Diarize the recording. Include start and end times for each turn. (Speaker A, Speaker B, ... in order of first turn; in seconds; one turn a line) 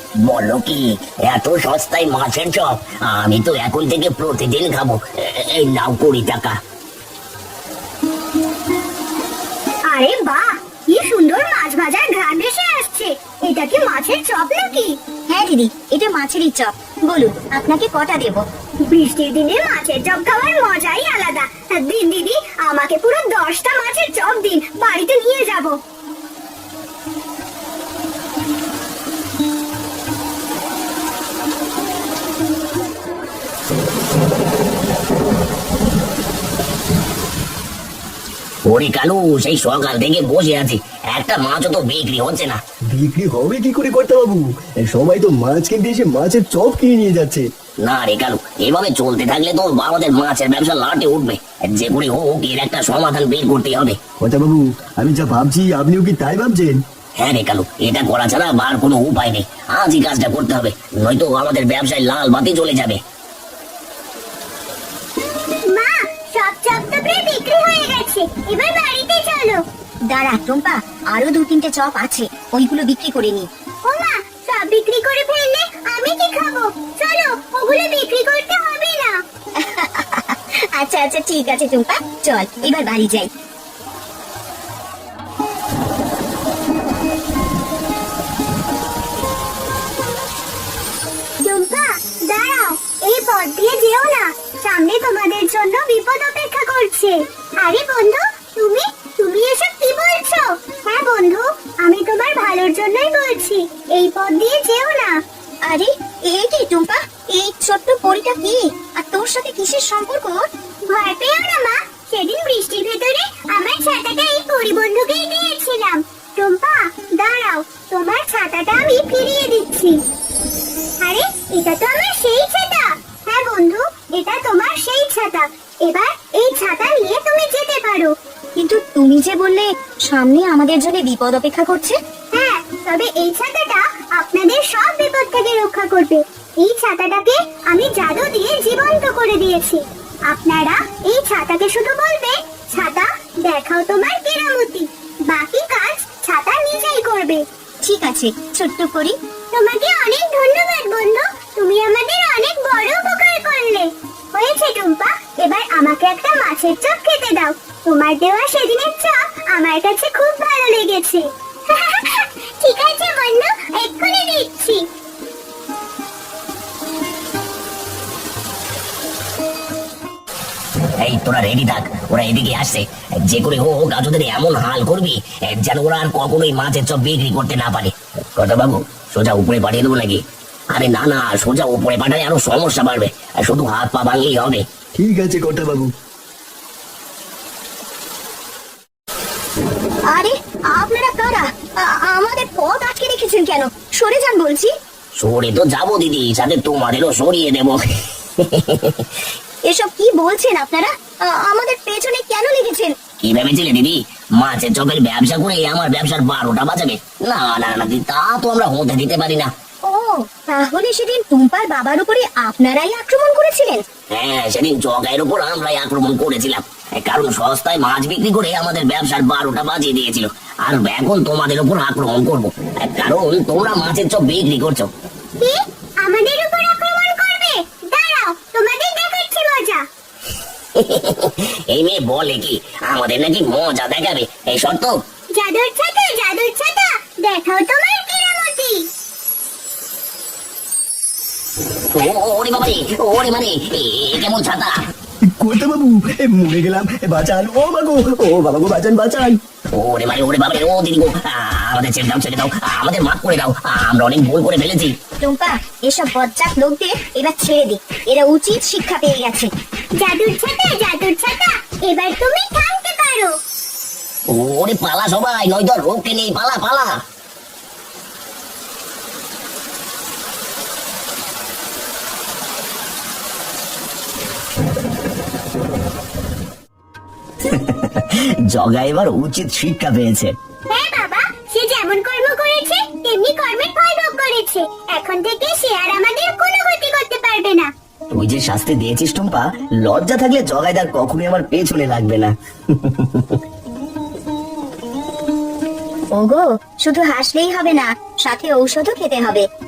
Speaker A: 0.2-6.6
Speaker B: 9.9-14.7
Speaker C: 13.3-14.9
Speaker B: 15.3-18.4
Speaker C: 18.9-25.7
Speaker B: 19.7-23.6
Speaker B: 24.5-25.6
Speaker A: 38.7-42.6
Speaker D: 42.9-47.5
Speaker A: 47.8-54.0
Speaker D: 54.2-56.8
Speaker E: 55.4-55.7
Speaker A: 57.2-63.0
Speaker C: 65.7-69.6
Speaker B: 70.1-73.5
Speaker C: 73.9-79.2
Speaker B: 79.6-83.3
Speaker C: 91.4-105.2
Speaker B: 105.7-110.4
Speaker C: 110.9-120.0
Speaker C: 121.0-128.2
Speaker B: 128.6-132.0
Speaker C: 132.3-147.4
Speaker B: 147.8-149.2
Speaker C: 149.5-164.9
Speaker A: 171.0-184.7
Speaker D: 184.9-185.9
Speaker B: 190.1-194.7
Speaker A: 195.2-197.8
Speaker A: 198.4-199.1
Speaker B: 199.7-202.9
Speaker A: 203.2-209.5
Speaker B: 209.9-213.8
Speaker A: 214.1-224.9
Speaker C: 225.4-229.8
Speaker A: 230.8-235.0
Speaker C: 235.3-238.9
Speaker A: 241.9-244.8
Speaker D: 245.4-249.4
Speaker A: 249.8-255.0
Speaker B: 255.2-259.5
Speaker C: 260.0-263.4
Speaker A: 264.3-267.0
Speaker E: 277.4-280.3
Speaker C: 280.7-287.7
Speaker E: 288.1-293.4
Speaker B: 296.1-299.4